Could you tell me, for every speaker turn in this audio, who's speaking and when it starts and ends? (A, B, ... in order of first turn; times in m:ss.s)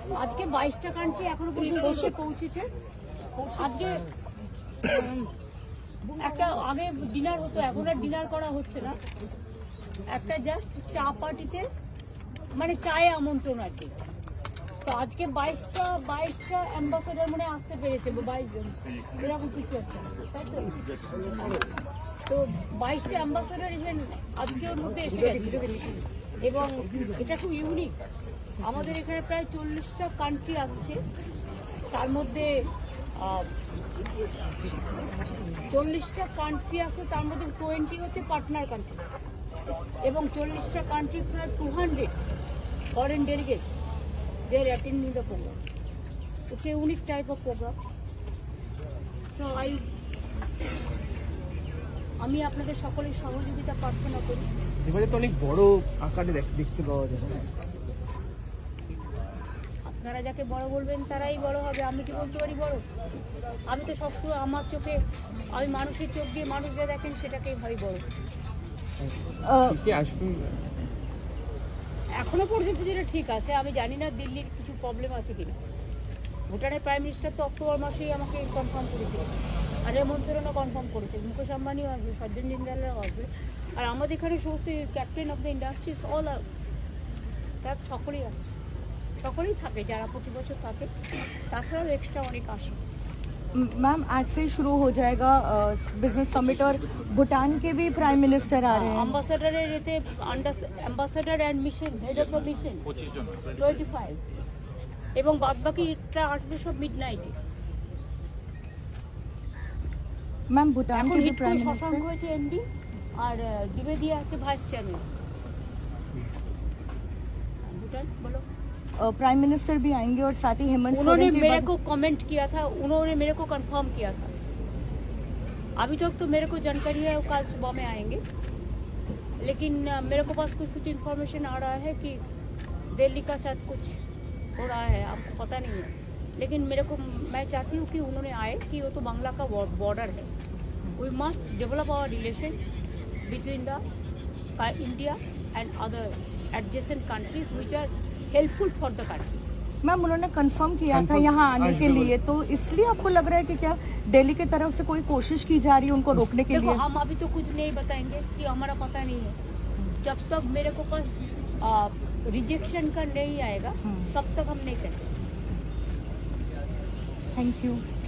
0:00.1-0:02.7 A
0:01.6-0:02.1 B
0:03.4-0:04.0 A
0:03.6-0:03.8 B
0:04.9-0:05.3 B
0:06.1-0:06.6 B
0:06.2-0:09.0 A
0:10.1-0:11.7 A
0:12.5-0:13.9 A
0:14.8-0:21.7 A
0:22.3-0:25.7 A
0:26.4-0:28.0 A
0:28.6-0:31.0 A
0:31.9-0:33.5 A
0:35.7-0:39.0 A
0:40.0-0:42.1 A
0:42.9-0:43.8 A
0:44.5-0:45.6 A
0:46.5-0:47.8 A
0:49.4-0:49.9 A
0:52.2-0:54.5 A
0:54.8-0:57.5 C
0:59.8-1:02.8 A
1:03.7-1:05.0 A
1:05.5-1:08.0 A
1:09.1-1:10.6 C
1:09.4-1:09.8 B
1:12.2-1:15.6 A
1:16.5-1:26.4 A
1:27.6-1:28.5 A
1:29.2-1:30.9 A
1:31.5-1:32.8 A
1:33.5-1:39.2 B
1:38.7-1:43.0 A
1:43.6-1:44.2 A
1:45.2-1:47.4 A
1:50.5-1:52.1 B
1:50.9-1:52.6 A
1:53.2-1:55.1 A
1:57.6-1:58.4 A
1:59.0-2:01.7 B
2:00.9-2:04.3 A
2:05.8-2:08.2 A
2:09.4-2:12.2 A
2:12.9-2:14.0 A
2:14.6-2:20.3 A
2:21.0-2:22.6 A
2:23.2-2:23.8 A
2:24.6-2:29.4 A
2:29.8-2:36.8 B
2:30.9-2:32.1 C
2:36.5-2:39.4 A
2:40.0-2:45.1 A
2:43.8-2:44.1 B
2:47.4-2:47.8 B